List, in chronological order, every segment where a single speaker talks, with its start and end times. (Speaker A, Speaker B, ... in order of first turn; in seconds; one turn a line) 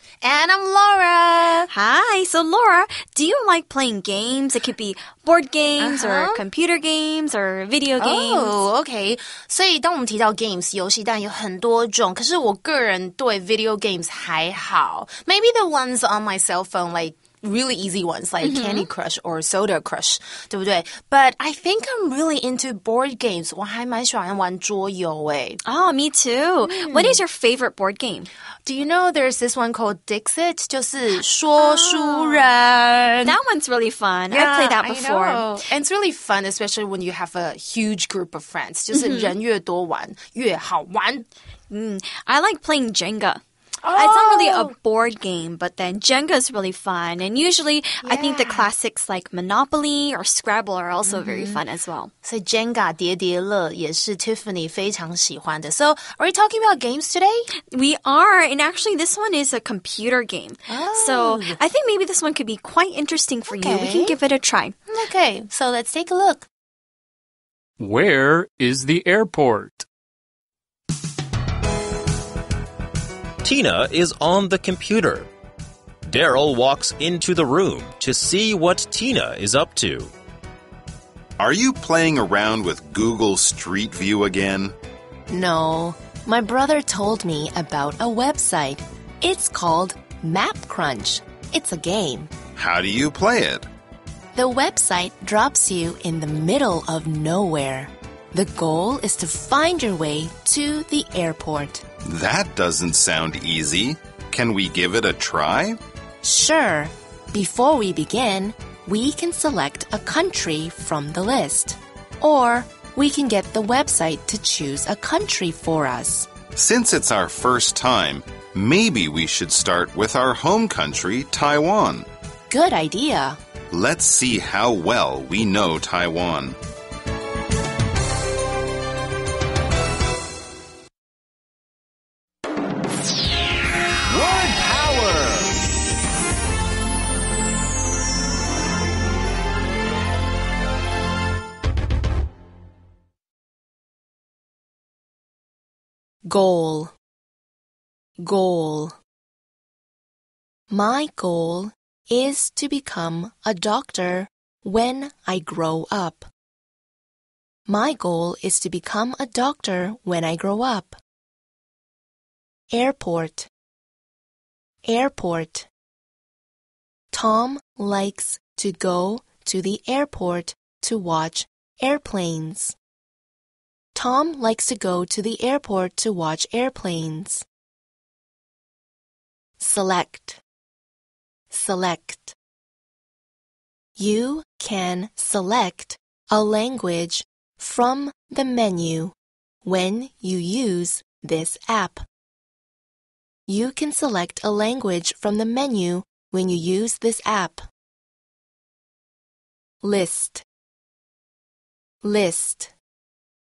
Speaker A: 0.2-1.7
Speaker B: 1.7-8.6
Speaker A: 5.8-6.4
Speaker A: 8.0-25.6
Speaker B: 18.4-18.9
Speaker B: 25.6-28.3
Speaker A: 26.6-27.2
Speaker A: 28.6-33.3
Speaker B: 31.6-32.5
Speaker B: 33.2-35.5
Speaker A: 34.3-41.2
Speaker B: 38.9-39.3
Speaker B: 41.7-43.4
Speaker A: 43.9-44.7
Speaker B: 43.9-52.1
Speaker A: 48.0-48.7
Speaker A: 51.1-51.6
Speaker A: 52.2-57.5
Speaker B: 57.7-64.8
Speaker A: 60.7-61.6
Speaker A: 63.5-64.1
Speaker A: 64.9-66.5
Speaker C: 67.8-69.8
Speaker D: 73.4-75.3
Speaker D: 76.0-80.1
Speaker E: 81.4-84.7
Speaker F: 85.3-92.3
Speaker E: 92.5-93.7
Speaker F: 94.3-101.8
Speaker E: 102.1-105.8
Speaker F: 106.2-116.3
Speaker E: 116.5-122.0
Speaker F: 122.5-123.4
Speaker E: 123.7-126.5
Speaker F: 146.2-146.9
Speaker F: 148.2-149.0
Speaker F: 150.7-156.3
Speaker F: 157.7-161.0
Speaker F: 162.7-163.5
Speaker F: 164.8-165.7
Speaker F: 167.1-172.8
Speaker F: 173.9-177.4
Speaker F: 179.6-180.4
Speaker F: 181.5-182.3
Speaker F: 184.0-192.0
Speaker F: 193.5-197.7
Speaker F: 199.8-200.4
Speaker F: 202.0-202.7